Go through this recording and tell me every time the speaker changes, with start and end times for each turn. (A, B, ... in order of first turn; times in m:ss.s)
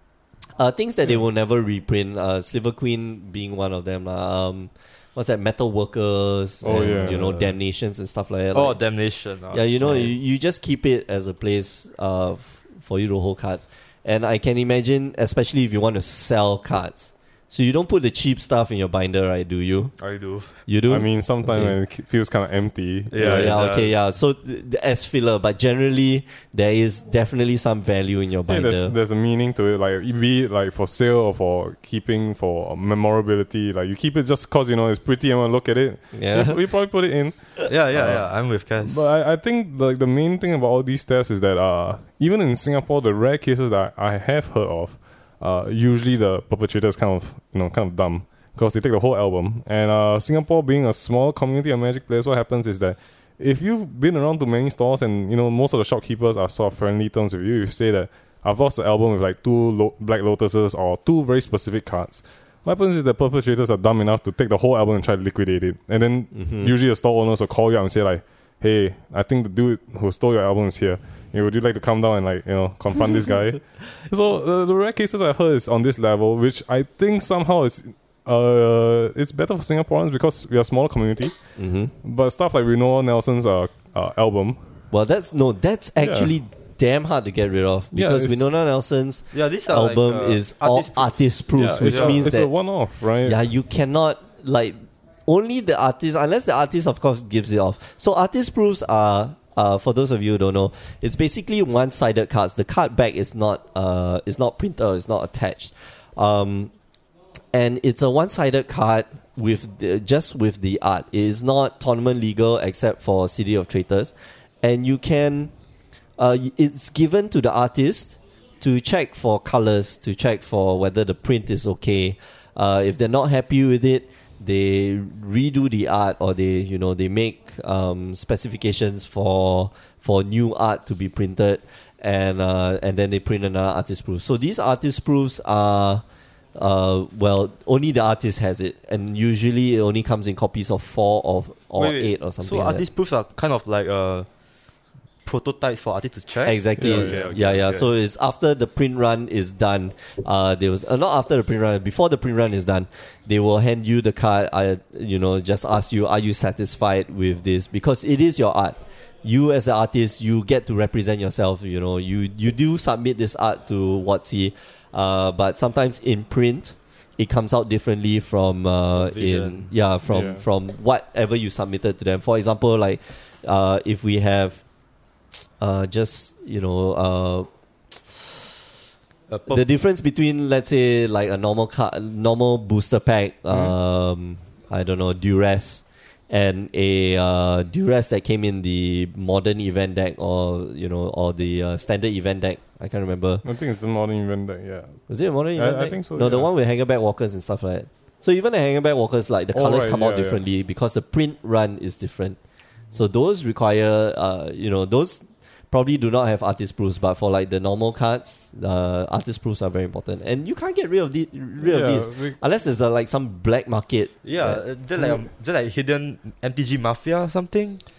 0:00.6-0:08.8 A
0:06.6-0:07.5 B
0:08.5-0:10.1 C
0:09.5-0:19.9 A
0:20.0-0:20.5 C
0:20.7-0:21.7 A
0:20.9-0:23.6 B
0:23.1-0:24.0 C
0:23.2-0:28.9 A
0:28.5-0:37.4 B
0:36.1-0:36.6 A
0:37.7-0:39.0 C
0:37.9-0:38.2 B
0:38.8-1:21.3 B
1:06.3-1:06.7 A
1:21.6-1:21.9 A
1:22.0-1:24.6 B
1:24.9-1:32.5 A
1:26.0-1:26.3 B
1:27.9-1:28.4 B
1:29.3-1:31.2 C
1:31.5-1:33.4 B
1:31.8-1:32.3 C
1:33.2-1:46.7 A
1:47.5-1:55.5 A
1:56.2-2:16.0 A
2:16.5-2:22.8 A
2:21.8-2:24.3 C
2:25.2-2:27.9 C
2:26.4-2:54.6 A
2:26.8-2:27.3 B
2:49.0-2:49.7 C
2:50.1-2:50.4 B
2:55.6-2:57.5 A
2:59.3-2:59.6 C
2:59.5-3:13.4 A
3:13.4-3:15.0 B
3:15.1-3:22.4 A
3:15.5-3:16.5 B
3:19.5-3:20.4 B
3:22.9-3:35.2 A
3:31.6-3:32.4 B
3:34.2-3:37.8 C